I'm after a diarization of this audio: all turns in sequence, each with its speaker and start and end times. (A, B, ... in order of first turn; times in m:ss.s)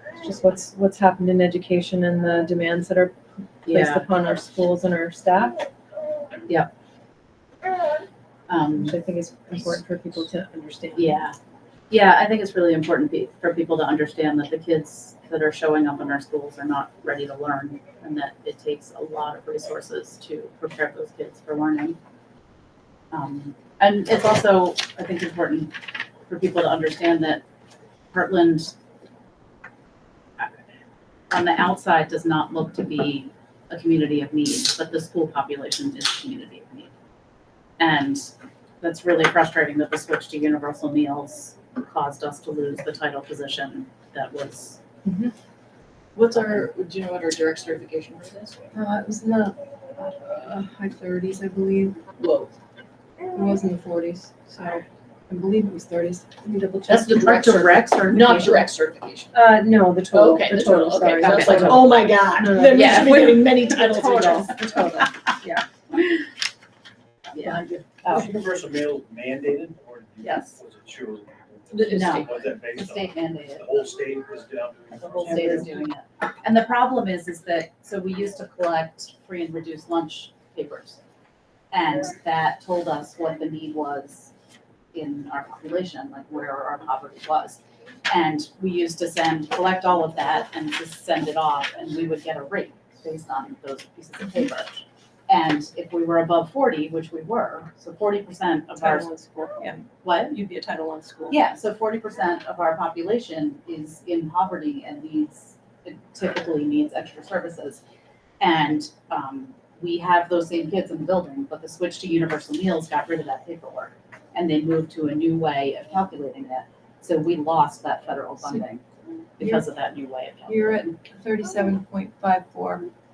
0:00.2-0:05.6 A
0:03.6-0:04.1 B
0:08.5-0:09.0 B
0:08.8-0:11.2 A
0:10.9-0:11.4 B
0:11.9-0:22.0 B
0:23.1-0:25.7 B
0:26.2-0:27.4 B
0:28.1-0:28.7 B
0:31.3-0:36.9 B
0:37.8-0:44.8 B
0:45.0-0:45.3 A
0:46.1-0:48.6 C
0:48.7-0:52.0 A
0:52.2-0:52.5 C
0:53.3-0:57.7 A
0:56.8-0:59.4 C
0:59.3-1:05.6 A
1:00.1-1:04.6 C
1:02.7-1:03.3 B
1:07.3-1:08.3 B
1:07.4-1:07.9 C
1:08.1-1:15.7 D
1:10.2-1:10.5 B
1:11.7-1:12.4 C
1:11.9-1:13.9 B
1:14.9-1:21.0 B
1:15.2-1:15.7 C
1:21.7-1:24.3 B
1:24.9-1:39.1 B
1:38.8-1:41.4 A
1:40.0-1:40.4 B
1:41.3-1:47.8 B
1:48.4-1:58.8 B
1:59.4-2:01.0 B
1:59.4-1:59.6 A
2:00.5-2:02.9 A